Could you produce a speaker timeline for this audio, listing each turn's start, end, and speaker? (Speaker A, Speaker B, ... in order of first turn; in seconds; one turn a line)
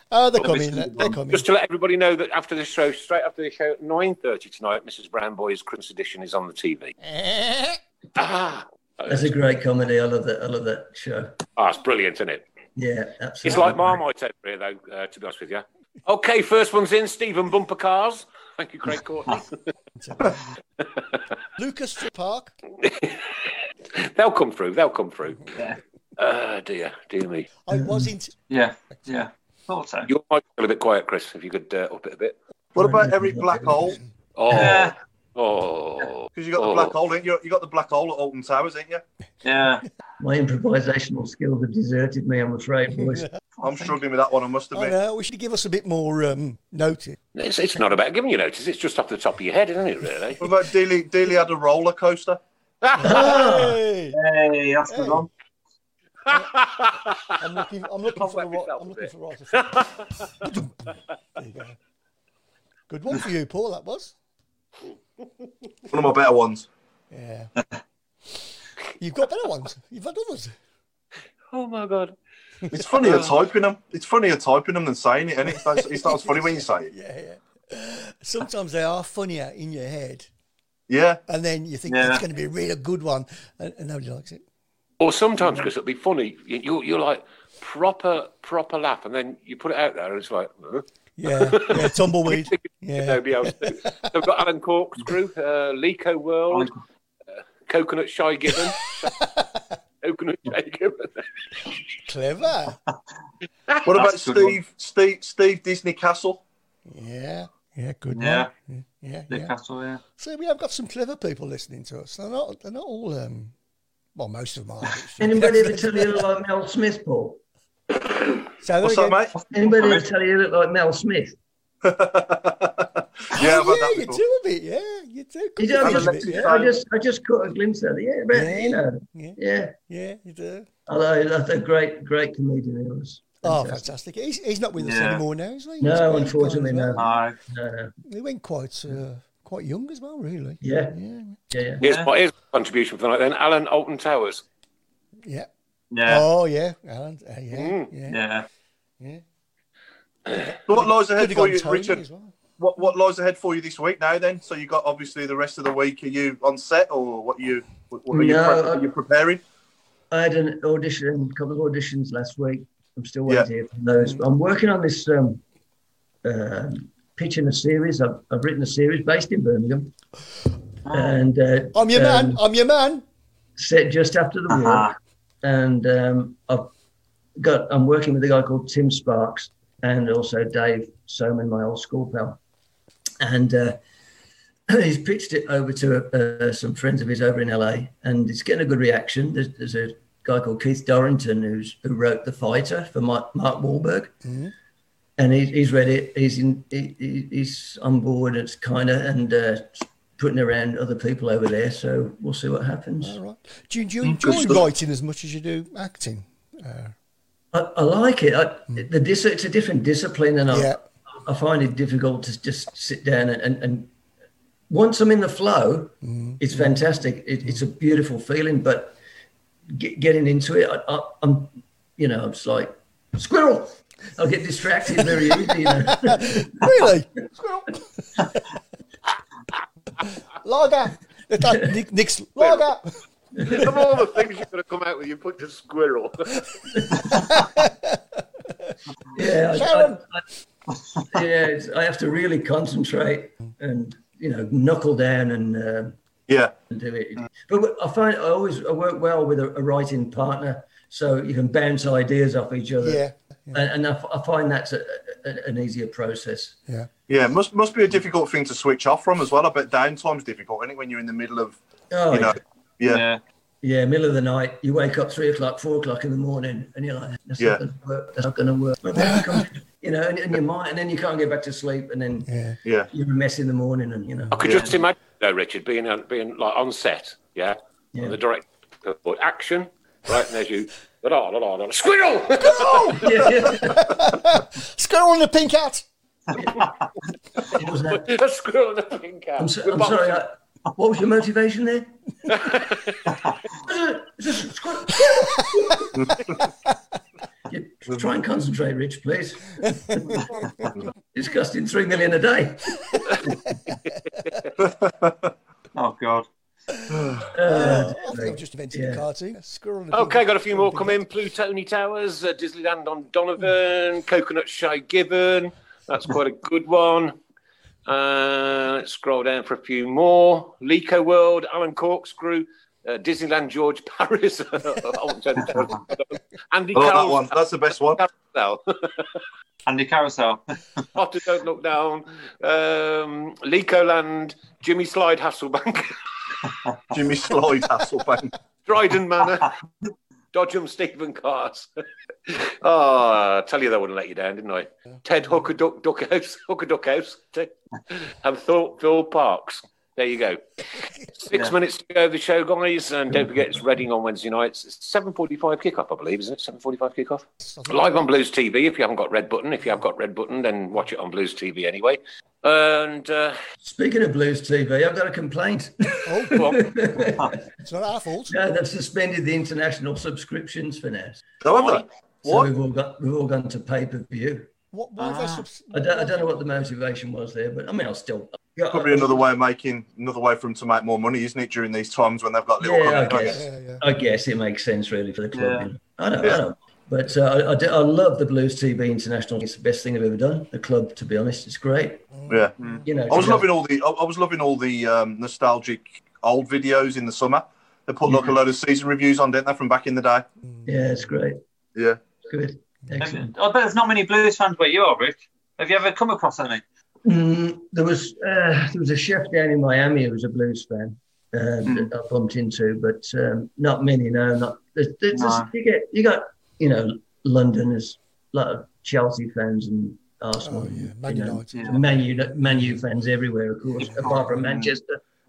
Speaker A: 0.1-1.4
Speaker B: 0.4-1.1
Speaker C: 1.3-6.9
Speaker A: 7.0-7.8
Speaker C: 8.1-9.3
Speaker D: 9.1-11.4
Speaker C: 11.6-12.4
Speaker D: 12.8-14.0
Speaker C: 13.4-19.5
Speaker A: 20.0-20.5
Speaker A: 21.6-22.5
Speaker C: 22.8-23.3
Speaker C: 23.9-25.6
Speaker C: 26.2-27.5
Speaker A: 27.6-28.3
Speaker D: 27.7-28.1
Speaker B: 28.5-30.1
Speaker C: 30.1-32.4
Speaker E: 32.7-34.0
Speaker D: 32.8-34.0
Speaker C: 34.4-36.9
Speaker B: 34.5-34.9
Speaker E: 36.3-39.0
Speaker B: 39.4-39.8
Speaker D: 40.2-43.2
Speaker A: 43.0-43.3
Speaker B: 43.5-44.0
Speaker E: 43.6-45.0
Speaker A: 44.7-47.2
Speaker C: 47.3-50.4
Speaker E: 50.4-52.4
Speaker C: 52.8-53.3
Speaker A: 53.0-54.2
Speaker D: 53.0-53.8
Speaker B: 54.1-55.3
Speaker A: 54.9-55.3
Speaker C: 56.3-57.4
Speaker A: 57.4-61.8
Speaker C: 58.2-60.1
Speaker A: 62.9-64.1
Speaker E: 65.9-66.7
Speaker A: 67.1-67.5
Speaker A: 69.0-70.5
Speaker C: 71.5-72.2
Speaker E: 72.7-76.9
Speaker C: 73.0-73.3
Speaker A: 75.7-80.3
Speaker E: 80.9-81.2
Speaker A: 81.3-84.4
Speaker B: 81.9-82.2
Speaker C: 85.0-96.7
Speaker A: 91.2-94.1
Speaker B: 96.5-96.8
Speaker C: 97.7-99.1
Speaker A: 98.8-99.5
Speaker C: 100.0-101.3
Speaker A: 102.0-102.8
Speaker E: 103.8-106.4
Speaker B: 103.9-104.6
Speaker A: 106.9-109.5
Speaker B: 108.1-108.5
Speaker B: 109.3-110.0
Speaker A: 110.2-113.5
Speaker A: 114.2-116.2
Speaker D: 115.2-117.4
Speaker A: 118.6-119.2
Speaker E: 118.8-119.3
Speaker B: 119.4-120.0
Speaker D: 119.5-121.3
Speaker E: 121.8-124.2
Speaker A: 123.3-126.6
Speaker D: 125.6-129.7
Speaker E: 125.8-126.7
Speaker A: 128.3-130.7
Speaker D: 130.9-133.8
Speaker A: 133.4-137.1
Speaker B: 134.8-135.2
Speaker D: 135.8-137.9
Speaker B: 136.9-137.4
Speaker A: 138.1-141.4
Speaker D: 140.6-141.0
Speaker D: 141.5-141.8
Speaker C: 141.8-144.4
Speaker B: 141.8-142.1
Speaker A: 145.2-145.5
Speaker B: 145.9-146.2
Speaker A: 146.1-148.2
Speaker C: 147.5-147.9
Speaker B: 148.1-148.5
Speaker A: 150.3-152.3
Speaker E: 150.7-152.0
Speaker E: 152.6-159.4
Speaker D: 158.1-158.9
Speaker D: 160.1-165.4
Speaker D: 166.2-169.9
Speaker B: 170.8-171.2
Speaker D: 170.9-172.4
Speaker A: 171.7-173.0
Speaker D: 173.6-176.7
Speaker B: 174.5-174.9
Speaker D: 177.4-182.4
Speaker D: 183.2-183.8
Speaker D: 184.7-194.1
Speaker A: 194.2-194.5
Speaker D: 195.2-203.2
Speaker A: 203.0-206.9
Speaker D: 204.0-204.7
Speaker D: 207.5-213.9
Speaker A: 210.5-210.8
Speaker D: 214.7-218.9
Speaker A: 216.0-216.8
Speaker D: 219.7-226.9
Speaker A: 225.7-228.4
Speaker A: 230.0-232.9
Speaker D: 231.4-231.7
Speaker C: 232.4-232.6
Speaker D: 233.4-233.8
Speaker C: 233.4-236.3
Speaker D: 236.7-237.1
Speaker A: 237.1-238.0
Speaker D: 239.1-240.2
Speaker A: 239.5-240.0
Speaker D: 241.0-245.9
Speaker E: 246.3-246.5
Speaker D: 246.7-256.6
Speaker A: 252.8-253.6
Speaker E: 257.1-261.6
Speaker D: 261.9-262.4
Speaker E: 262.1-263.1
Speaker B: 262.9-263.2
Speaker D: 263.6-272.3
Speaker A: 268.9-269.3
Speaker A: 272.2-272.6
Speaker E: 272.6-272.9
Speaker D: 272.9-274.7
Speaker C: 274.3-283.1
Speaker B: 274.4-274.7
Speaker A: 282.4-285.9
Speaker D: 282.9-284.0
Speaker D: 286.3-286.7
Speaker D: 287.5-288.1
Speaker C: 287.5-290.2
Speaker D: 289.4-292.0
Speaker C: 292.3-293.1
Speaker D: 293.6-295.9
Speaker A: 295.1-295.8
Speaker E: 295.9-296.4
Speaker D: 297.5-300.3
Speaker D: 301.1-303.0
Speaker A: 302.9-303.8
Speaker E: 304.6-305.3
Speaker B: 305.7-306.3
Speaker E: 306.9-307.2
Speaker D: 307.3-309.0
Speaker A: 307.4-311.0
Speaker C: 309.9-317.1
Speaker C: 317.9-329.1
Speaker E: 326.7-328.0
Speaker B: 329.6-330.4
Speaker C: 330.9-335.9
Speaker E: 336.9-338.3
Speaker C: 338.6-339.5
Speaker C: 340.3-341.7
Speaker C: 342.3-350.4
Speaker C: 351.1-363.4
Speaker A: 357.4-358.1
Speaker D: 363.6-367.3
Speaker A: 366.1-366.4
Speaker C: 366.3-366.6
Speaker A: 367.6-368.3
Speaker D: 368.3-371.2
Speaker E: 371.4-372.5
Speaker C: 371.5-371.8
Speaker D: 372.2-374.5
Speaker A: 374.7-376.4
Speaker B: 375.0-375.4
Speaker D: 375.7-379.2
Speaker E: 378.7-383.4
Speaker D: 382.6-392.0
Speaker A: 383.2-383.8
Speaker B: 385.3-385.7
Speaker A: 392.1-392.4
Speaker E: 392.3-400.3
Speaker D: 392.8-393.5
Speaker D: 400.6-401.4
Speaker D: 402.3-403.3
Speaker B: 403.0-406.6
Speaker D: 407.0-425.0
Speaker B: 415.1-415.5
Speaker A: 420.4-421.9
Speaker B: 421.5-421.8
Speaker A: 422.5-422.7
Speaker B: 423.8-424.7